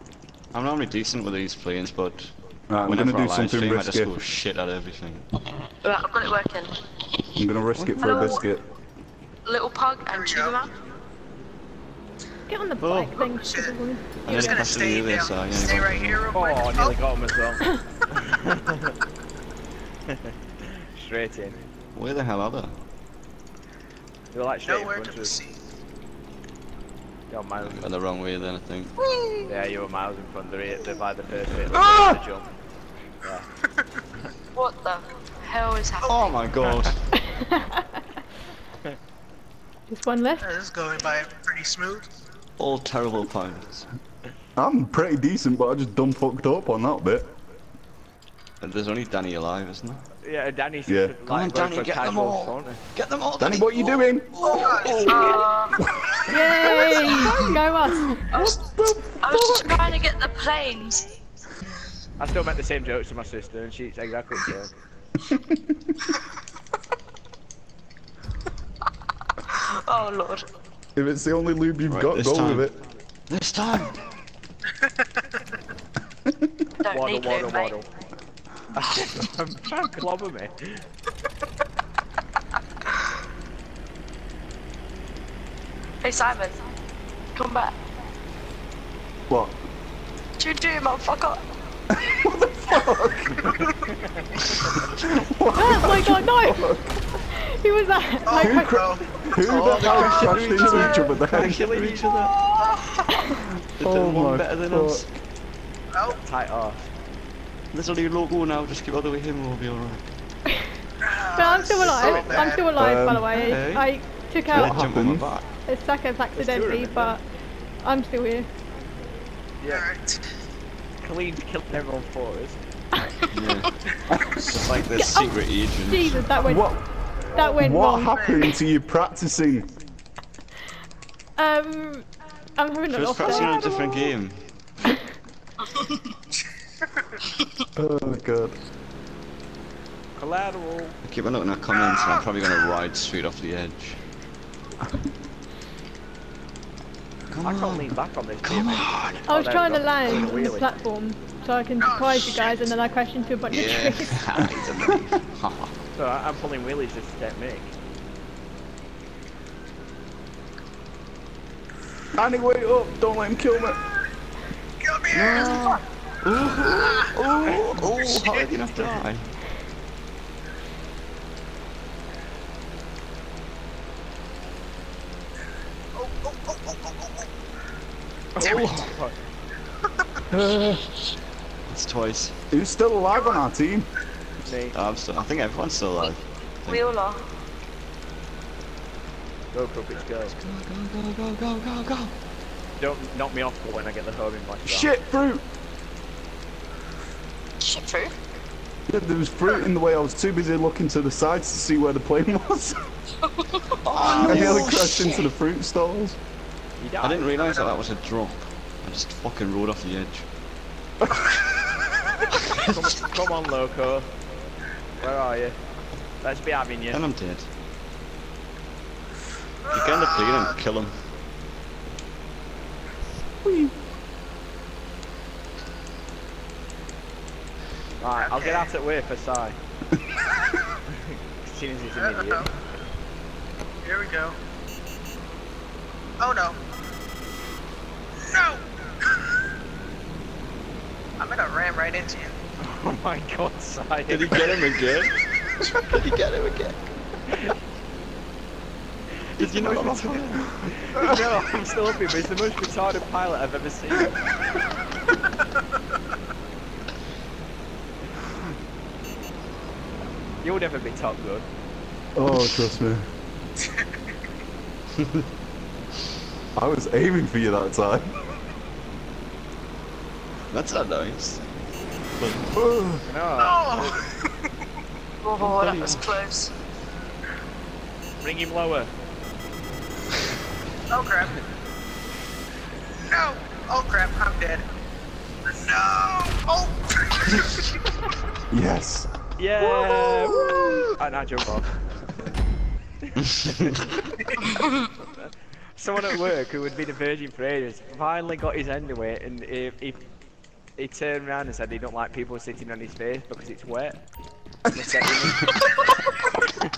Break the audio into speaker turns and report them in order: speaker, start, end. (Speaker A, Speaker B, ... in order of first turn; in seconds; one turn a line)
Speaker A: 0.5-5.3
Speaker B: 2.7-4.1
Speaker C: 5.8-6.8
Speaker B: 7.3-8.6
Speaker A: 7.7-8.4
Speaker C: 8.0-8.4
Speaker C: 9.4-10.7
Speaker D: 10.1-10.7
Speaker E: 12.5-14.7
Speaker A: 12.8-13.2
Speaker D: 13.2-17.0
Speaker A: 14.2-16.3
Speaker F: 16.3-18.9
Speaker F: 20.1-21.6
Speaker A: 21.9-22.7
Speaker F: 24.3-25.3
Speaker D: 24.6-25.6
Speaker F: 27.3-27.9
Speaker A: 27.6-28.9
Speaker D: 29.0-29.5
Speaker F: 29.4-32.5
Speaker B: 31.7-32.2
Speaker F: 33.2-33.5
Speaker C: 34.5-36.4
Speaker A: 36.0-37.0
Speaker E: 37.2-38.0
Speaker E: 39.9-40.5
Speaker D: 40.4-42.1
Speaker A: 42.6-43.9
Speaker B: 44.5-47.3
Speaker A: 48.6-50.0
Speaker F: 50.2-52.8
Speaker B: 50.9-51.1
Speaker A: 51.2-55.4
Speaker B: 53.4-55.0
Speaker D: 54.4-55.4
Speaker C: 54.9-55.9
Speaker B: 56.0-60.0
Speaker E: 56.3-58.2
Speaker C: 58.3-58.6
Speaker C: 59.2-61.1
Speaker F: 62.2-64.7
Speaker B: 65.2-65.9
Speaker C: 69.5-70.5
Speaker B: 71.0-72.7
Speaker A: 71.9-72.7
Speaker A: 73.3-74.1
Speaker C: 76.8-77.7
Speaker F: 76.9-77.9
Speaker F: 78.7-80.8
Speaker C: 86.0-86.6
Speaker C: 87.3-87.8
Speaker B: 89.3-89.6
Speaker C: 90.4-91.4
Speaker B: 91.9-93.7
Speaker F: 93.9-94.2
Speaker B: 94.9-96.9
Speaker E: 95.5-96.7
Speaker E: 97.2-98.8
Speaker D: 98.2-100.5
Speaker B: 98.4-101.6
Speaker A: 99.5-102.3
Speaker F: 100.2-102.0
Speaker D: 102.6-103.0
Speaker B: 103.3-105.0
Speaker A: 103.8-105.1
Speaker D: 105.9-106.2
Speaker F: 106.2-106.9
Speaker A: 107.7-110.1
Speaker D: 111.0-112.7
Speaker E: 111.3-114.8
Speaker F: 111.9-112.5
Speaker B: 112.7-113.3
Speaker A: 113.3-114.0
Speaker A: 114.5-115.5
Speaker B: 114.5-115.3
Speaker E: 115.7-117.2
Speaker F: 116.3-117.2
Speaker E: 117.8-118.5
Speaker F: 119.6-119.8
Speaker D: 119.7-120.3
Speaker F: 121.0-122.6
Speaker A: 123.3-123.7
Speaker A: 124.4-126.3
Speaker E: 124.9-126.7
Speaker B: 126.4-126.8
Speaker E: 127.3-128.2
Speaker B: 127.4-129.7
Speaker D: 128.1-128.5
Speaker E: 131.4-134.1
Speaker A: 132.9-134.5
Speaker B: 137.8-138.6
Speaker F: 140.2-141.0
Speaker A: 141.0-144.0
Speaker D: 141.7-142.2
Speaker A: 147.3-149.3
Speaker F: 147.4-150.7
Speaker E: 149.3-154.3
Speaker A: 150.1-150.3
Speaker D: 151.8-152.7
Speaker A: 153.5-155.7
Speaker F: 155.9-157.7
Speaker B: 162.1-163.8
Speaker D: 164.8-165.8
Speaker A: 165.1-169.2
Speaker C: 165.3-165.8
Speaker D: 166.4-168.6
Speaker D: 175.9-177.3
Speaker F: 178.4-179.1
Speaker A: 178.4-178.9
Speaker D: 178.4-178.7
Speaker B: 180.3-180.9
Speaker A: 181.7-182.3
Speaker B: 182.5-183.9
Speaker F: 184.4-184.7
Speaker A: 184.7-186.9
Speaker C: 186.7-187.2
Speaker F: 189.5-190.3
Speaker A: 190.2-192.1
Speaker F: 192.8-194.9
Speaker B: 194.7-195.4
Speaker C: 197.6-198.1
Speaker B: 198.9-202.8
Speaker C: 203.2-204.5
Speaker A: 203.8-205.1
Speaker F: 204.0-204.6
Speaker B: 204.1-206.2
Speaker F: 206.8-207.6
Speaker A: 207.0-210.2
Speaker B: 211.0-211.3
Speaker A: 212.4-212.7
Speaker F: 212.5-214.1
Speaker F: 215.0-215.6
Speaker F: 216.2-217.0
Speaker A: 216.9-217.5
Speaker A: 219.6-221.0
Speaker D: 219.7-220.5
Speaker B: 223.4-223.7
Speaker F: 228.0-229.6
Speaker D: 228.2-228.7
Speaker F: 230.9-232.5
Speaker D: 231.9-232.5
Speaker D: 233.8-234.3
Speaker D: 236.2-236.6
Speaker D: 238.2-238.6
Speaker D: 241.2-242.3
Speaker F: 242.6-244.4
Speaker A: 244.1-245.2
Speaker A: 245.8-246.8
Speaker F: 249.3-254.1
Speaker A: 249.4-250.7
Speaker F: 260.4-261.5
Speaker B: 262.1-263.1
Speaker B: 266.6-268.1
Speaker A: 270.5-271.4
Speaker A: 272.2-272.6
Speaker B: 272.5-273.0
Speaker F: 273.1-274.0
Speaker D: 273.4-274.4
Speaker C: 275.2-276.5
Speaker A: 275.4-276.2
Speaker F: 278.2-278.9
Speaker D: 280.9-281.4
Speaker D: 283.0-284.6
Speaker D: 285.5-287.8
Speaker B: 288.5-289.1
Speaker F: 289.4-291.7
Speaker F: 293.1-294.1
Speaker F: 295.1-300.0
Speaker F: 300.8-304.0
Speaker F: 304.7-305.6